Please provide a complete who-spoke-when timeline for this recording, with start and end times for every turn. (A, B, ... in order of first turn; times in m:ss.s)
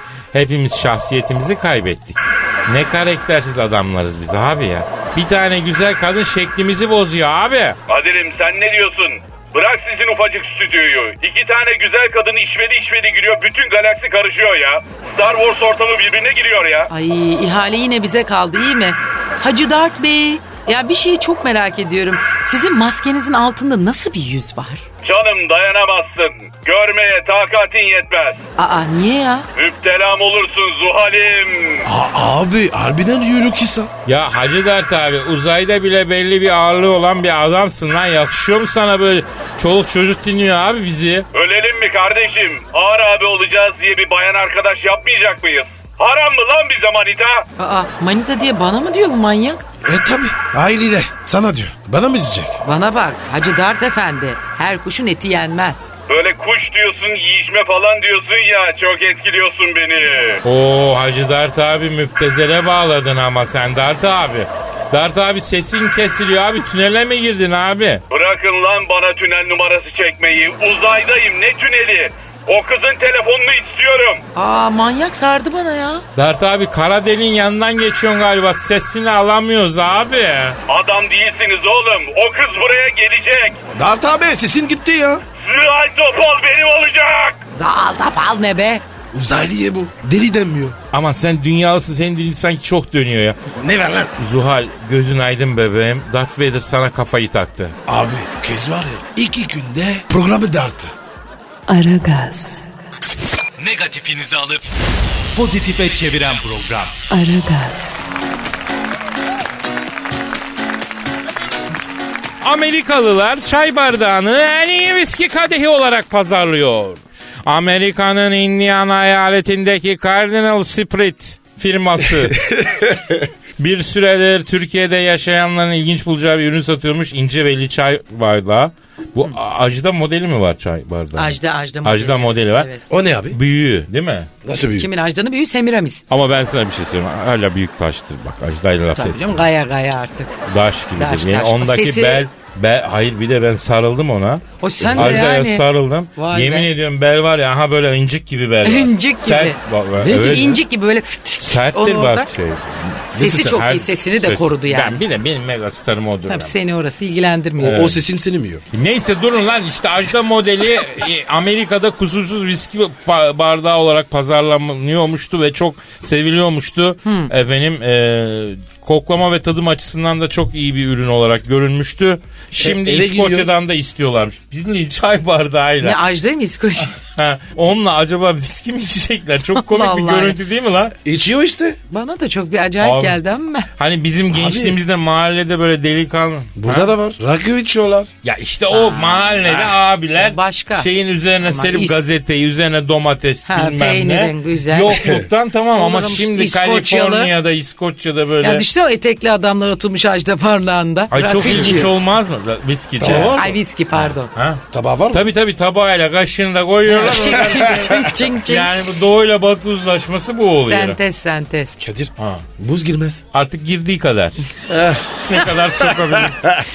0:00.3-0:07.8 A
0:07.9-0:16.9 B
0:16.9-0:24.8 C
0:25.0-0:28.4 B
0:28.6-0:29.5 C
0:29.5-0:31.9 B
0:31.8-0:33.9 D
0:34.0-0:41.3 A
0:41.3-0:47.4 B
0:47.6-0:49.6 C
0:49.8-0:52.6 D
0:52.6-0:55.9 C
0:56.1-1:00.4 B
1:00.4-1:08.0 A
1:08.1-1:14.2 B
1:14.3-1:16.0 C
1:16.2-1:20.6 A
1:20.7-1:23.6 B
1:23.7-1:25.2 D
1:25.4-1:27.4 B
1:27.5-1:28.8 C
1:29.1-1:30.8 D
1:30.9-1:33.4 A
1:33.5-1:34.1 D
1:34.2-1:37.8 A
1:37.9-1:40.9 D
1:41.7-1:42.7 E
1:43.6-1:44.6 F
1:45.3-1:47.1 F
1:47.1-1:48.1 E
1:52.4-2:02.6 A
2:02.4-2:03.2 D
2:03.6-2:12.7 A
2:11.1-2:12.8 C
2:12.9-2:13.4 D
2:13.3-2:14.3 A
2:14.4-2:14.9 D
2:14.8-2:16.0 C
2:16.1-2:19.4 A
2:18.9-2:20.3 C
2:20.5-2:24.4 A
2:21.0-2:22.2 C
2:24.6-2:26.7 C
2:24.8-2:25.3 D
2:25.0-2:30.6 A
2:28.6-2:32.3 C
2:30.0-2:30.4 D
2:31.4-2:36.5 A
2:33.1-2:33.7 D
2:33.2-2:35.0 C
2:36.3-2:37.9 C
2:37.6-2:38.0 A
2:37.6-2:38.6 D
2:38.7-2:56.0 A
2:47.0-2:47.3 C
2:52.6-2:53.5 D
2:55.8-2:57.0 C
2:57.0-3:00.9 A
2:59.5-3:00.4 C
3:01.0-3:01.8 D
3:01.9-3:03.7 C
3:02.8-3:03.2 A
3:03.8-3:06.9 A
3:04.3-3:04.8 D
3:06.6-3:08.1 D
3:08.2-3:18.6 A
3:08.7-3:09.6 C
3:10.2-3:10.9 C
3:11.4-3:12.0 C
3:13.5-3:15.0 C
3:15.8-3:17.3 C
3:18.4-3:21.9 C
3:21.1-3:31.0 A
3:21.5-3:21.8 D
3:23.0-3:23.5 D
3:23.0-3:24.3 C
3:24.7-3:25.2 D
3:26.8-3:28.7 C
3:27.0-3:28.0 D
3:30.6-3:31.8 C
3:31.8-3:33.2 D
3:32.2-3:32.4 A
3:33.3-3:34.4 A
3:34.7-3:35.0 D
3:35.2-3:36.6 A
3:36.0-3:36.5 D